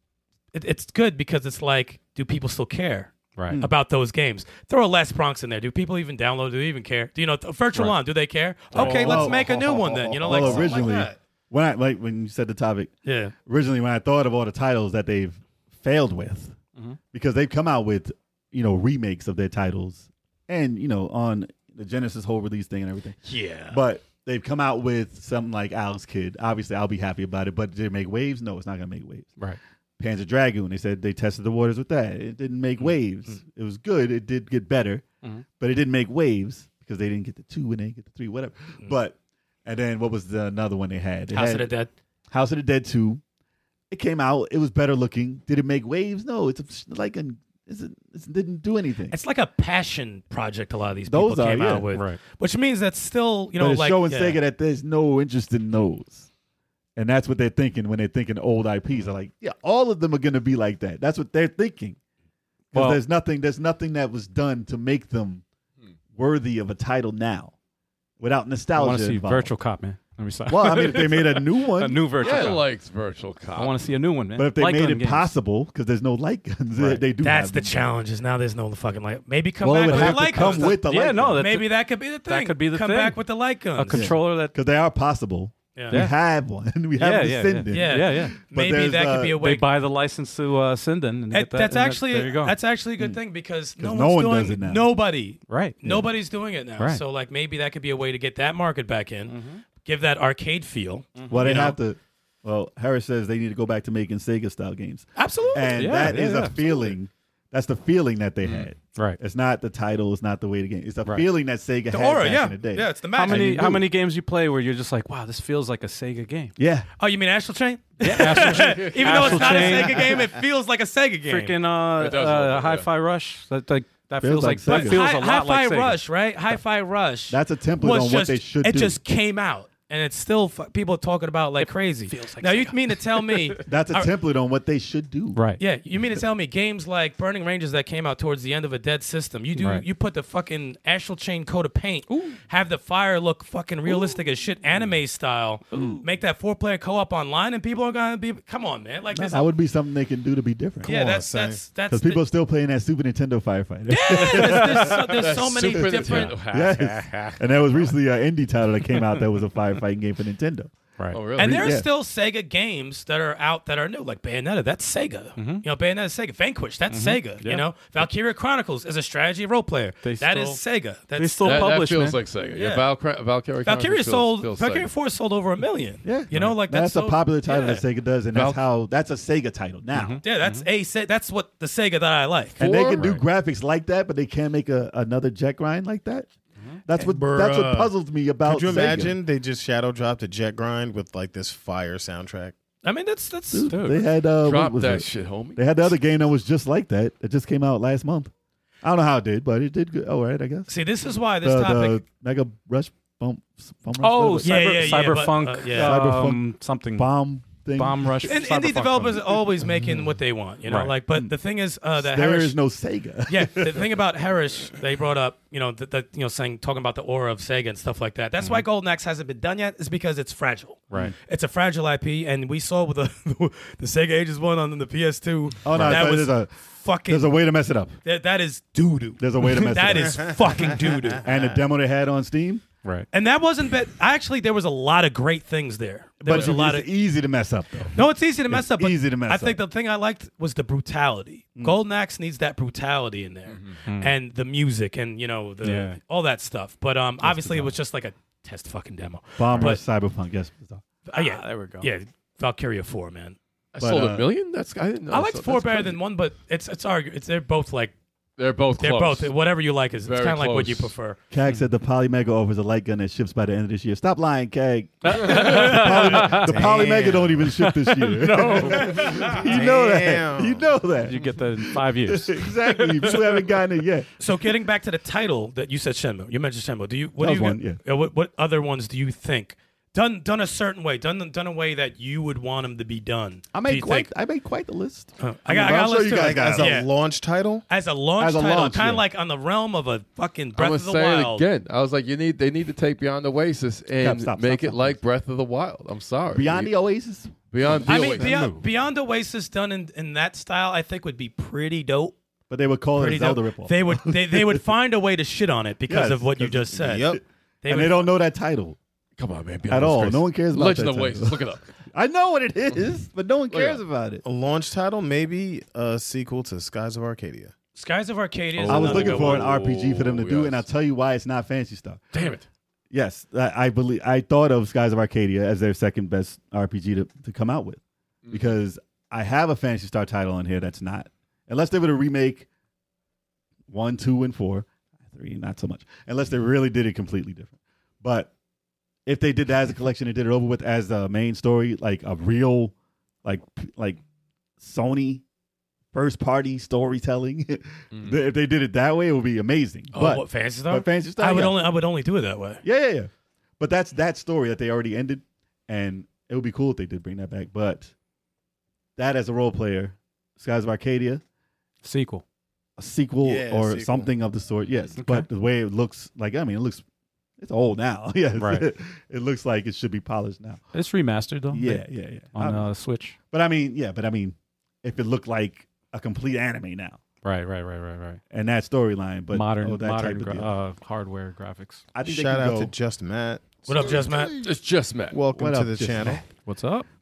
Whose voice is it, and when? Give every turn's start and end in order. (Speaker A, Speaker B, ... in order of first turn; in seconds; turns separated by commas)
Speaker A: 0.5-11.1, Speaker B: 3.4-3.6, Speaker C: 8.7-12.9, Speaker B: 8.8-9.1, Speaker D: 9.1-11.2, Speaker A: 13.0-13.3, Speaker C: 13.4-16.6, Speaker C: 17.1-29.3, Speaker A: 23.2-23.8, Speaker C: 30.0-35.0, Speaker C: 35.6-41.7, Speaker A: 41.3-41.9, Speaker C: 42.3-43.2, Speaker C: 43.9-49.1, Speaker A: 49.1-54.4, Speaker C: 51.1-51.9, Speaker B: 51.9-52.2, Speaker C: 53.6-56.3, Speaker C: 57.0-62.0, Speaker C: 62.7-65.4, Speaker B: 62.7-63.0, Speaker C: 66.1-67.5, Speaker C: 68.2-69.5, Speaker B: 68.8-72.7, Speaker C: 70.5-72.6, Speaker E: 72.2-73.8, Speaker B: 73.5-75.3, Speaker C: 74.3-77.8, Speaker B: 76.8-77.0, Speaker A: 77.2-84.1, Speaker C: 79.6-81.4, Speaker B: 79.8-83.2, Speaker B: 83.7-84.5, Speaker C: 83.9-89.4, Speaker A: 85.7-86.0, Speaker B: 85.9-86.1, Speaker B: 87.0-88.4, Speaker A: 87.7-89.7, Speaker B: 89.4-92.6, Speaker A: 91.3-101.8, Speaker C: 93.8-94.9, Speaker B: 95.5-95.8, Speaker B: 96.8-97.0, Speaker B: 99.3-99.6, Speaker B: 101.2-101.6, Speaker C: 101.3-113.9, Speaker A: 105.2-106.1, Speaker B: 105.7-106.6, Speaker E: 108.4-108.7, Speaker A: 111.9-113.6, Speaker B: 113.1-116.5, Speaker C: 116.6-116.9, Speaker A: 117.0-121.6, Speaker B: 118.0-120.2, Speaker E: 118.4-119.8, Speaker B: 121.2-126.0, Speaker E: 122.0-122.9, Speaker C: 124.2-125.0, Speaker A: 124.6-134.1, Speaker C: 127.3-129.0, Speaker B: 131.6-133.6, Speaker C: 133.6-135.4, Speaker B: 135.3-135.6, Speaker A: 135.6-149.5, Speaker B: 139.6-139.8, Speaker B: 142.1-142.4, Speaker B: 145.7-146.0, Speaker C: 149.1-150.9, Speaker D: 150.8-151.6, Speaker A: 150.8-152.2, Speaker C: 151.9-160.7, Speaker A: 153.9-156.4, Speaker E: 154.9-157.9, Speaker E: 161.1-161.7, Speaker A: 161.4-171.8, Speaker C: 161.4-161.9, Speaker B: 165.4-165.6, Speaker B: 166.9-167.6, Speaker B: 170.0-170.6, Speaker B: 171.1-172.2, Speaker E: 171.4-174.9, Speaker A: 172.5-172.9, Speaker A: 173.6-177.8, Speaker C: 176.0-180.2, Speaker E: 178.3-178.6, Speaker B: 179.9-180.7, Speaker A: 180.2-182.6, Speaker C: 182.6-186.3, Speaker E: 182.6-183.2, Speaker C: 186.8-189.2, Speaker D: 187.0-187.9, Speaker D: 188.4-192.5, Speaker A: 192.8-194.0, Speaker C: 193.5-198.3, Speaker B: 193.7-194.0, Speaker E: 194.4-195.9, Speaker C: 198.8-200.7, Speaker A: 200.7-202.0, Speaker C: 201.4-205.0, Speaker B: 204.0-207.1, Speaker A: 204.4-206.0, Speaker C: 205.7-208.3, Speaker B: 207.8-209.3, Speaker A: 208.2-212.6, Speaker C: 209.7-210.0, Speaker B: 210.7-210.9, Speaker C: 211.1-211.3, Speaker C: 212.0-213.9, Speaker A: 213.3-227.3, Speaker C: 225.6-228.0, Speaker B: 225.7-226.0, Speaker A: 228.0-231.2, Speaker C: 229.2-230.4, Speaker C: 231.2-232.6, Speaker A: 233.1-236.9, Speaker C: 236.2-239.6, Speaker A: 237.9-249.8, Speaker B: 243.8-244.1, Speaker B: 245.6-246.0, Speaker C: 247.2-247.7, Speaker C: 249.4-250.8, Speaker A: 251.1-253.4, Speaker B: 251.1-251.9, Speaker E: 253.7-256.0, Speaker C: 253.8-254.3, Speaker A: 255.1-257.9, Speaker E: 258.4-259.3, Speaker A: 258.7-261.2, Speaker E: 260.0-260.9, Speaker C: 261.3-274.1, Speaker B: 265.0-266.9, Speaker D: 266.1-267.5, Speaker B: 267.4-269.5, Speaker D: 268.8-270.7, Speaker B: 271.0-273.5, Speaker A: 274.2-284.1, Speaker C: 277.2-277.8, Speaker C: 283.5-286.8, Speaker A: 285.2-286.9, Speaker D: 286.1-287.6, Speaker A: 287.7-291.4, Speaker C: 288.2-289.0, Speaker E: 290.5-296.7, Speaker C: 294.0-295.0, Speaker C: 296.3-298.4, Speaker E: 297.5-298.5, Speaker A: 297.9-302.1, Speaker B: 298.3-298.6, Speaker C: 302.5-304.6, Speaker A: 302.9-307.1, Speaker C: 305.9-308.8, Speaker D: 306.8-307.2, Speaker A: 307.6-308.1, Speaker E: 309.2-311.7, Speaker C: 309.7-314.2, Speaker E: 313.5-313.8, Speaker D: 314.2-317.5, Speaker A: 317.7-319.5, Speaker E: 318.6-320.6, Speaker C: 318.6-322.0, Speaker E: 322.1-322.4, Speaker C: 322.9-327.8, Speaker E: 328.2-328.5, Speaker C: 328.3-332.5, Speaker C: 333.7-338.3, Speaker C: 339.1-344.0, Speaker C: 344.6-345.2, Speaker C: 345.9-351.6, Speaker E: 347.9-348.2, Speaker A: 349.9-352.6, Speaker C: 352.6-357.9, Speaker C: 359.0-361.2, Speaker B: 361.8-362.2, Speaker C: 362.8-366.8, Speaker D: 363.2-364.1, Speaker B: 365.0-365.3, Speaker C: 367.4-370.6, Speaker B: 368.4-368.7, Speaker B: 370.7-373.1, Speaker C: 371.5-372.6, Speaker C: 373.3-377.0, Speaker B: 377.2-378.2, Speaker C: 378.3-380.5, Speaker B: 379.3-381.8, Speaker C: 381.9-382.7, Speaker D: 382.0-384.1, Speaker A: 383.7-384.4, Speaker C: 383.8-384.5, Speaker E: 384.4-385.2, Speaker D: 385.1-386.2, Speaker C: 385.3-386.2, Speaker B: 386.4-386.9